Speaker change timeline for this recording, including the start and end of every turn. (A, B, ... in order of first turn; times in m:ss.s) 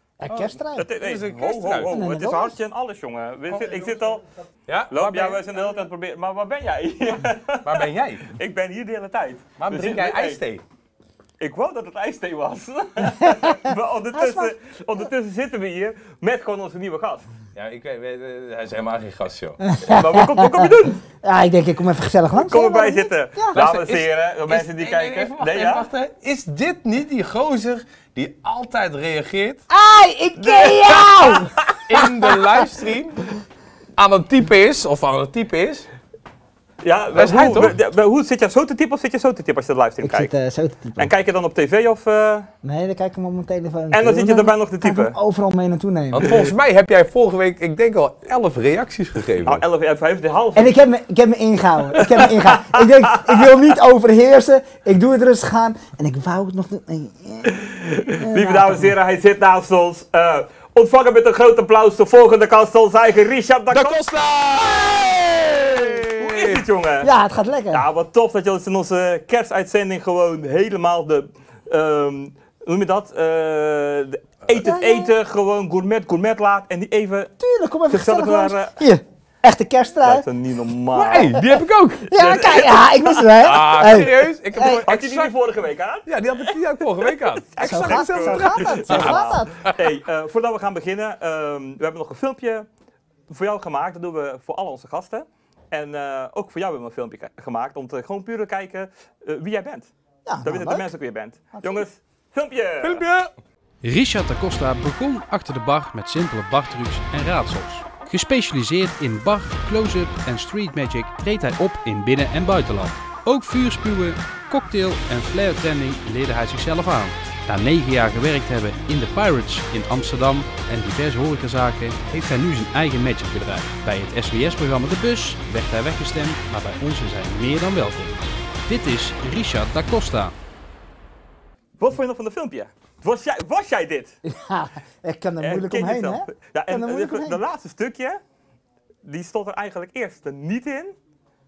0:00.2-0:00.9 A
0:00.3-0:02.0 B
0:00.7-0:04.2 C
0:01.9-0:02.6 A
0:04.7-0:05.8 B
0:04.9-0:10.4 C
0:07.6-0:08.3 B
0:09.6-0:10.6 B
0:11.4-0:17.3 C
0:13.0-0:15.0 A
0:17.6-0:19.6 B
0:19.6-0:23.6 A
0:19.9-0:21.0 C
0:22.3-0:25.9 C
0:23.5-0:29.6 B
0:29.7-0:31.7 A
0:30.4-0:31.6 C
0:31.8-0:33.3 B
0:34.0-0:35.9 B
0:36.8-0:40.3 C
0:37.1-0:37.8 B
0:40.0-0:41.1 A
0:41.0-0:42.5 C
0:42.6-0:46.5 A
0:43.9-0:45.2 C
0:46.1-0:49.6 B
0:49.4-0:50.8 C
0:50.6-0:58.9 A
0:52.2-0:53.5 C
0:57.7-1:04.1 C
1:03.7-1:06.7 B
1:06.0-1:07.1 C
1:07.0-1:07.8 A
1:07.7-1:17.3 C
1:14.5-1:15.1 A
1:17.4-1:20.2 A
1:17.9-1:18.8 C
1:20.0-1:21.4 C
1:20.9-1:22.4 B
1:21.1-1:24.8 A
1:22.1-1:23.4 C
1:23.4-1:25.3 B
1:24.7-1:32.7 C
1:26.1-1:29.8 B
1:27.6-1:29.6 A
1:33.3-1:39.9 C
1:40.2-1:40.9 A
1:40.4-1:43.0 C
1:41.5-1:41.8 A
1:42.8-1:43.3 B
1:43.8-2:10.3 D
2:11.8-2:14.2 C
2:14.2-2:17.4 A
2:15.4-2:18.2 C
2:19.0-2:21.0 C